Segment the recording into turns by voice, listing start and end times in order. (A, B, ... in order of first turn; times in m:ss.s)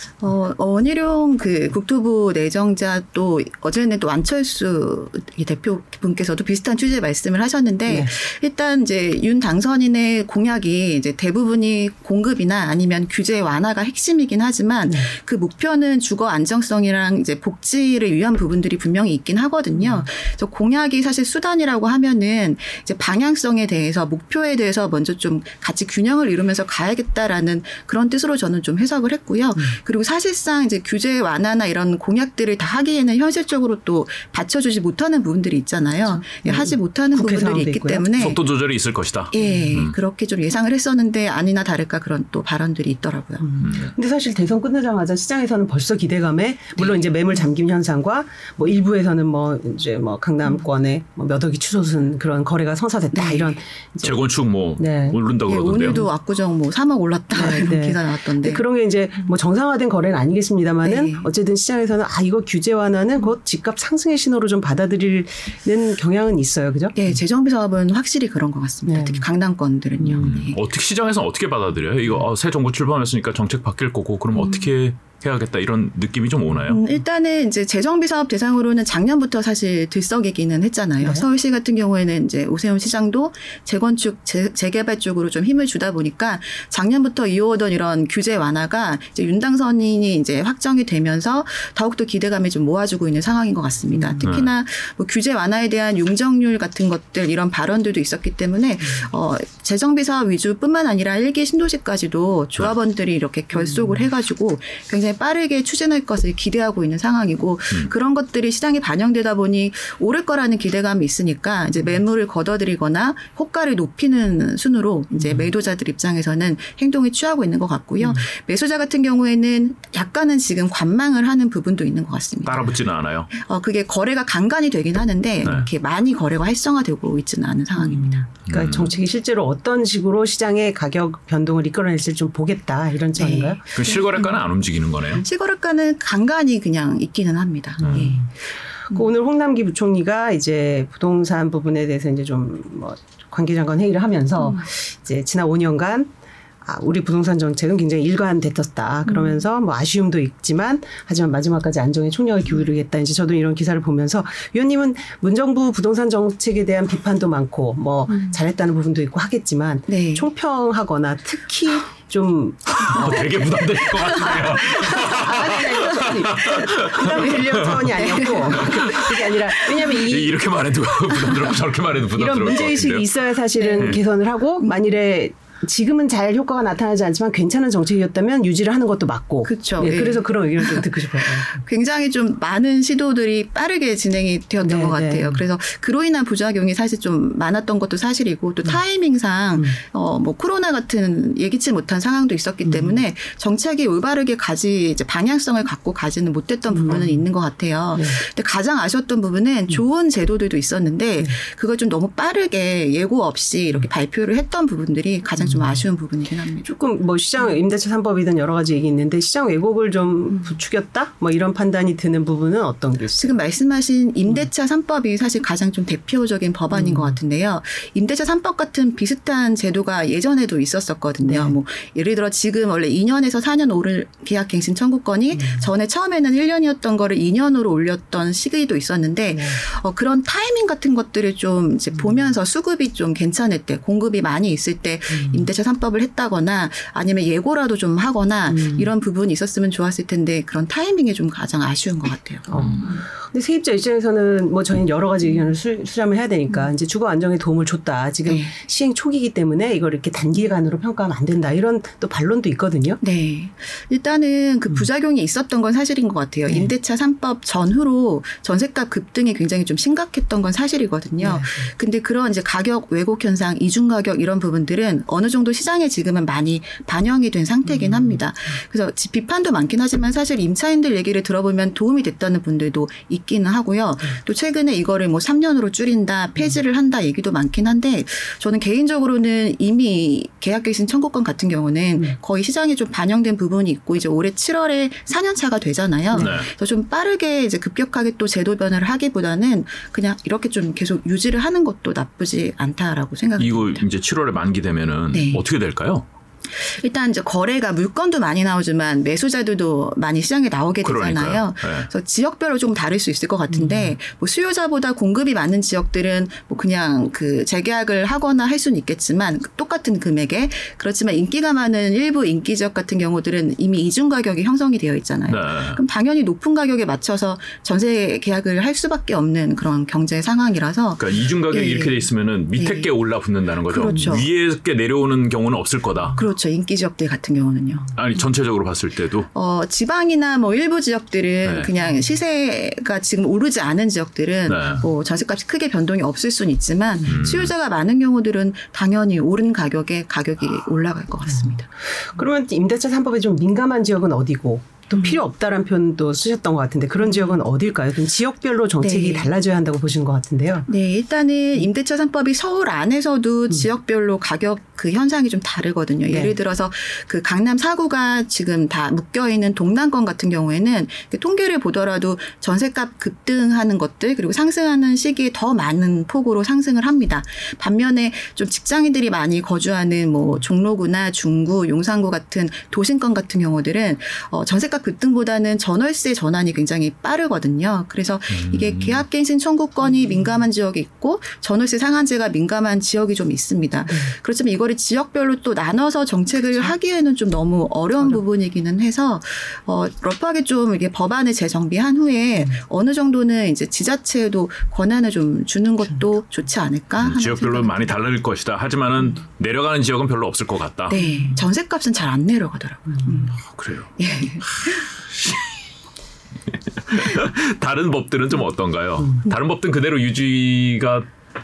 0:00.2-0:38.4 A
0:19.8-0:20.0 B
0:36.1-0:38.1 B
0:38.2-0:39.9 C
0:39.3-0:43.7 A
0:43.4-0:54.2 B
0:43.6-0:43.9 C
0:46.8-0:47.1 A
0:53.1-0:53.5 A
0:54.0-0:56.0 C
0:54.8-0:55.2 B
0:55.5-0:58.6 A
0:57.3-1:06.9 B
1:00.8-1:01.3 A
1:06.9-1:10.6 A
1:08.9-1:09.2 B
1:10.0-1:10.3 B
1:10.2-1:16.8 C
1:16.7-2:02.7 A
1:33.9-1:34.3 B
1:34.2-1:34.5 C
1:43.6-1:44.0 B
2:02.4-2:03.3 C
2:03.3-2:08.3 A
2:07.8-2:13.6 B
2:08.4-2:08.9 C
2:13.2-2:14.4 A
2:13.7-2:15.2 C
2:15.1-2:18.2 A
2:17.8-2:18.1 C
2:17.8-2:18.2 B
2:18.9-2:26.1 B
2:26.6-2:50.4 B
2:39.9-2:40.3 A
2:42.7-2:49.0 C
2:44.1-2:49.0 A
2:49.7-2:53.1 C
2:52.1-3:01.6 B
2:53.6-2:54.0 A
2:59.4-3:26.7 A
3:04.6-3:05.4 B
3:12.6-3:13.0 B
3:16.7-3:17.1 B
3:25.4-3:25.8 B
3:26.6-3:33.4 B
3:33.2-4:03.0 A
3:36.7-3:37.2 B
3:41.2-3:41.5 B
3:45.3-3:45.7 B
3:49.3-3:49.6 B
3:55.1-3:55.5 B
3:58.5-3:58.9 B
4:02.5-4:13.0 B
4:02.6-4:02.8 C
4:08.2-4:08.5 A
4:13.0-4:53.9 A
4:21.2-4:21.7 B
4:27.6-4:28.2 B
4:46.1-4:46.5 C
4:53.4-4:56.0 C
4:55.1-4:55.4 A
4:56.6-5:22.0 A
5:00.8-5:01.9 C
5:03.5-5:03.9 B
5:15.3-5:15.8 C
5:21.0-5:26.2 C
5:22.6-5:22.9 A
5:23.7-5:24.3 A
5:23.9-5:24.2 B
5:26.1-5:27.9 A
5:27.9-5:29.3 C
5:29.3-5:41.6 A
5:31.4-5:31.7 C
5:34.5-5:34.8 C
5:37.0-5:37.5 C
5:41.3-5:50.7 B
5:48.8-5:49.3 A
5:50.7-6:38.0 A
5:56.1-5:56.3 B
6:18.3-6:19.0 C
6:19.8-6:20.3 B
6:37.0-6:41.0 C
6:40.9-6:43.4 A
6:41.0-6:41.4 B
6:43.5-6:43.9 C
6:44.0-6:44.9 A
6:44.6-6:45.5 C
6:46.8-6:51.1 C
6:49.0-6:49.3 B